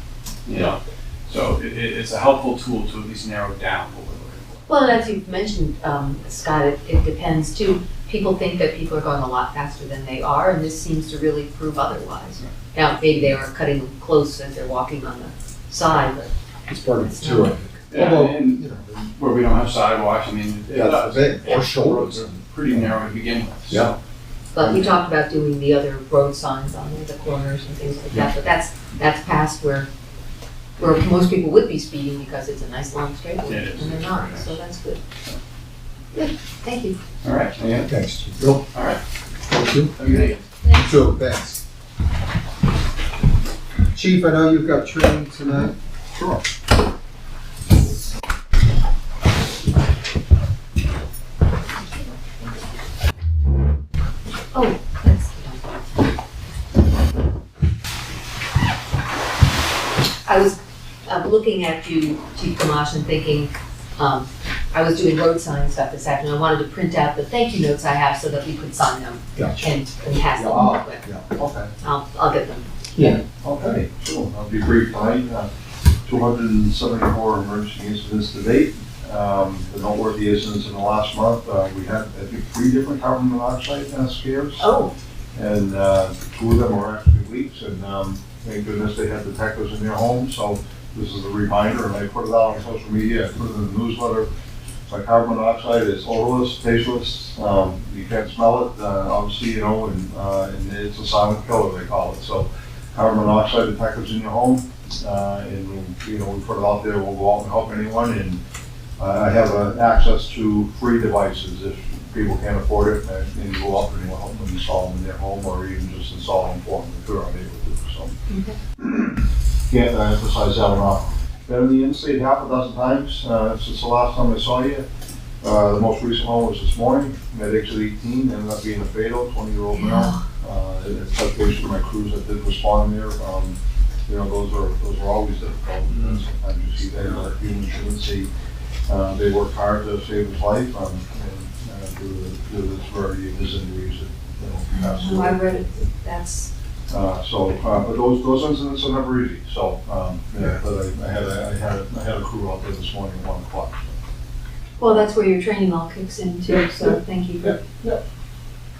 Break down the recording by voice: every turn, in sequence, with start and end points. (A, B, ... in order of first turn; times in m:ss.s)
0:00.5-0:04.7 A
0:04.7-0:16.3 B
0:16.7-0:19.1 C
0:16.9-0:17.6 B
0:17.9-0:23.9 A
0:20.7-0:23.0 C
0:23.7-0:23.9 C
0:24.5-0:29.9 B
0:30.8-0:35.0 B
0:33.4-0:34.6 A
0:36.1-0:37.0 B
0:37.2-0:37.9 A
0:37.8-0:38.6 C
0:38.7-0:39.0 A
0:39.5-0:39.9 C
0:39.9-0:40.4 A
0:40.0-0:40.7 B
0:40.6-0:41.6 C
0:43.9-0:46.4 C
0:54.5-0:56.1 B
1:00.2-1:11.0 B
1:09.4-1:09.7 C
1:10.3-1:11.3 C
1:11.3-1:11.7 D
1:11.8-1:12.7 B
1:12.9-1:13.2 C
1:13.3-1:15.5 D
1:16.0-1:24.8 D
1:24.6-1:24.9 B
1:25.3-1:34.3 D
1:34.9-1:48.4 D
1:49.0-1:58.1 D
1:58.3-1:58.6 B
1:58.8-2:04.8 D
2:05.4-2:13.6 D
2:09.7-2:10.2 B
2:14.1-2:18.3 D
2:18.9-2:25.4 D
2:24.7-2:26.5 B
2:26.9-2:33.9 D
2:34.8-2:37.6 B
2:37.4-2:38.0 D